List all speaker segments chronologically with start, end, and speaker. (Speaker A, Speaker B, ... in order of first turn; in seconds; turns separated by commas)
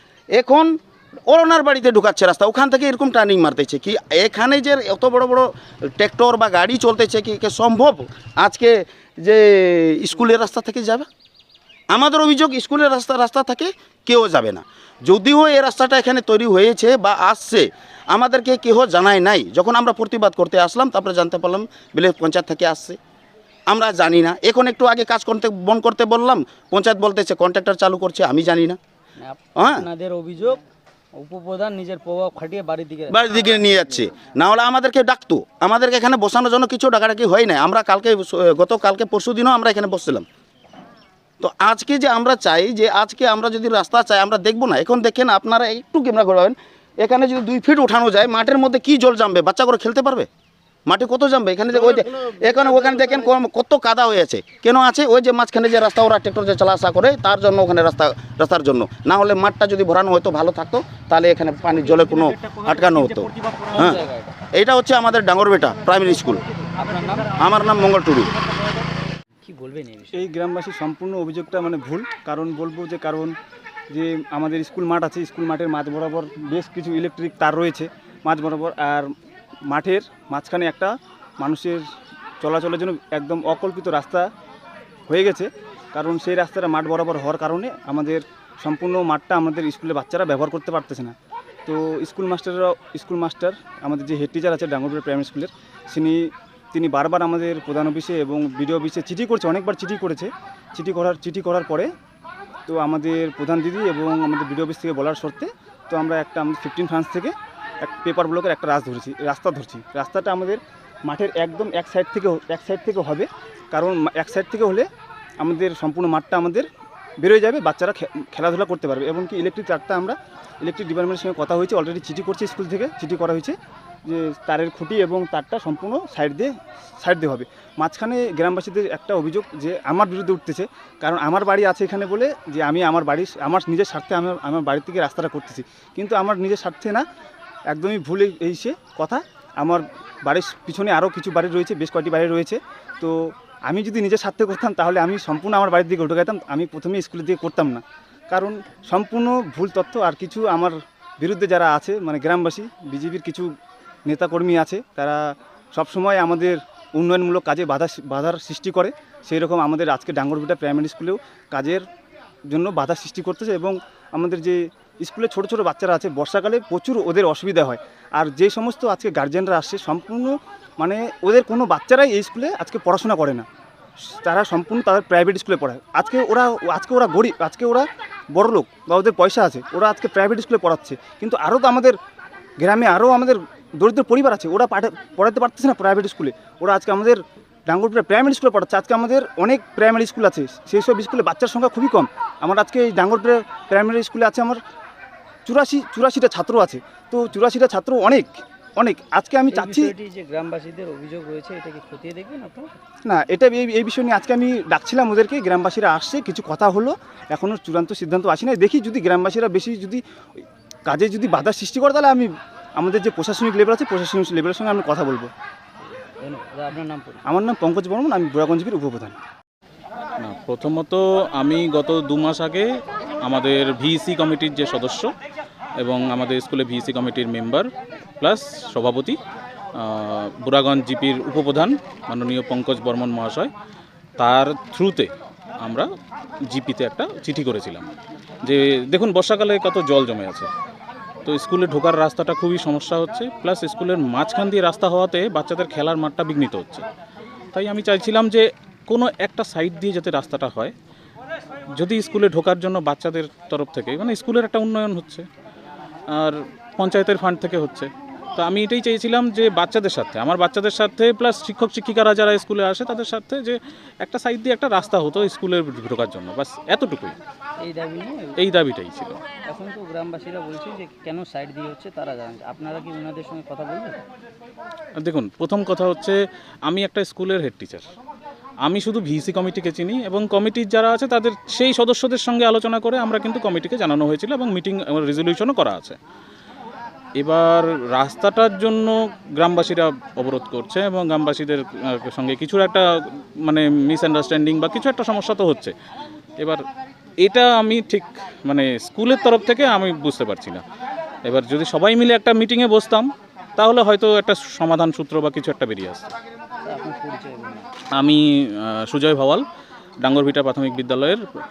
Speaker A: 0.3-11.1, Speaker A: 11.9-23.0, Speaker A: 23.7-28.8, Speaker B: 29.2-30.6, Speaker A: 29.6-29.9, Speaker B: 31.1-33.4, Speaker A: 33.1-40.3, Speaker A: 41.4-50.3, Speaker A: 50.9-64.0, Speaker B: 62.2-64.3, Speaker A: 64.5-66.4, Speaker B: 66.7-67.4, Speaker A: 67.3-68.3, Speaker B: 69.5-70.2, Speaker C: 70.1-73.4, Speaker C: 73.9-79.1, Speaker C: 79.7-81.8, Speaker C: 82.4-84.3, Speaker C: 85.1-91.2, Speaker C: 91.7-101.9, Speaker C: 102.7-114.9, Speaker C: 115.4-116.7, Speaker C: 117.2-137.1, Speaker C: 137.7-153.5, Speaker C: 154.1-155.2, Speaker C: 155.7-161.8, Speaker C: 162.5-173.5, Speaker C: 174.2-182.0, Speaker C: 182.6-194.6, Speaker C: 195.5-199.9, Speaker B: 199.5-202.7, Speaker C: 203.1-210.0, Speaker C: 210.9-215.3, Speaker B: 216.0-217.2, Speaker C: 217.3-219.2, Speaker D: 220.2-222.7, Speaker D: 223.2-225.1, Speaker D: 225.8-227.7, Speaker D: 228.2-229.2, Speaker D: 229.8-233.5, Speaker D: 234.2-235.1, Speaker D: 236.5-237.9, Speaker D: 238.4-240.5, Speaker D: 241.3-246.8, Speaker D: 247.5-250.7, Speaker D: 251.8-255.2, Speaker D: 256.1-267.2, Speaker B: 267.6-268.4, Speaker D: 268.4-269.2, Speaker B: 269.4-274.0, Speaker D: 275.0-277.9, Speaker D: 278.6-286.0, Speaker D: 287.2-292.8, Speaker D: 293.4-295.7, Speaker D: 297.2-300.6, Speaker D: 301.2-306.1, Speaker B: 306.6-307.7, Speaker D: 307.9-309.4, Speaker D: 310.0-311.2